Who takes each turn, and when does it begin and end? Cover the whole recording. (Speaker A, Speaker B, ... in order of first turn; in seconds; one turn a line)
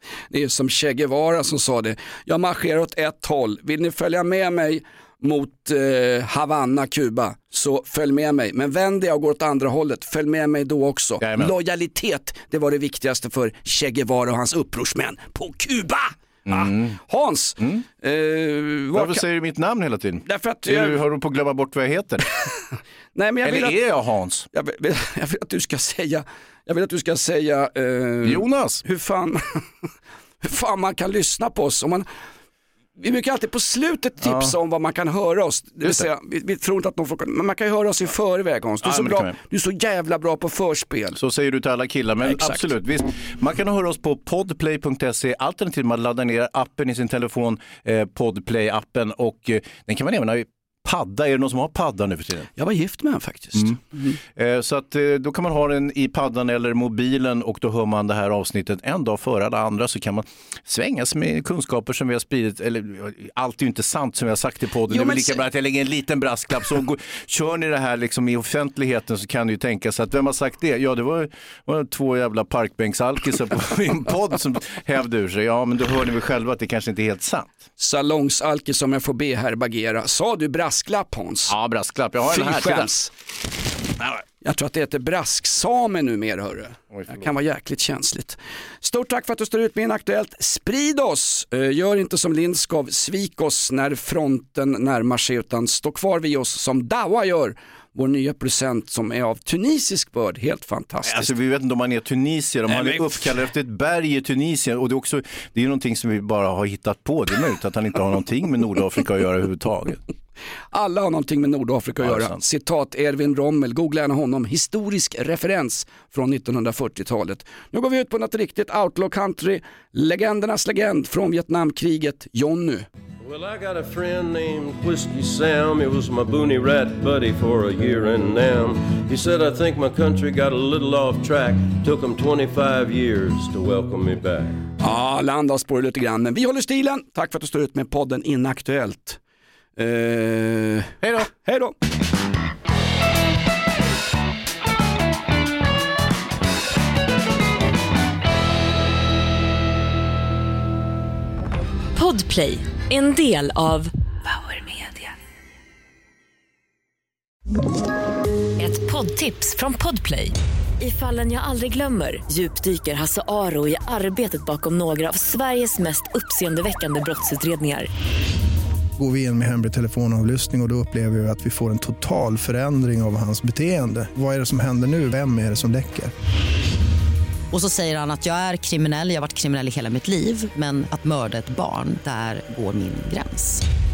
Speaker A: 0.3-19.2
Speaker B: 11.2-11.5
Speaker B: 16.5-17.0
Speaker B: 18.9-22.2
Speaker A: 20.2-21.0
Speaker A: 23.1-23.8
Speaker B: 23.4-24.5
Speaker A: 24.5-29.6
Speaker B: 28.2-28.8
Speaker A: 30.4-32.1
Speaker A: 33.0-41.2
Speaker B: 34.2-34.5
Speaker B: 35.8-36.1
Speaker B: 38.8-39.3
Speaker B: 41.1-52.5
Speaker A: 42.2-42.7
Speaker A: 52.5-54.2
Speaker B: 53.5-77.5
Speaker A: 64.9-65.4
Speaker A: 77.8-81.5
Speaker B: 81.5-82.9
Speaker A: 82.2-83.1
Speaker A: 84.4-101.3
Speaker B: 86.9-87.2
Speaker B: 101.0-110.0
Speaker A: 102.7-103.3
Speaker A: 110.7-122.9
Speaker B: 112.0-112.4
Speaker C: 123.2-134.6
Speaker A: 134.8-139.2
Speaker A: 139.8-141.7
Speaker B: 141.0-141.3
Speaker D: 151.9-155.1
Speaker D: 158.6-167.9
Speaker E: 169.0-176.1
Speaker F: 177.5-183.6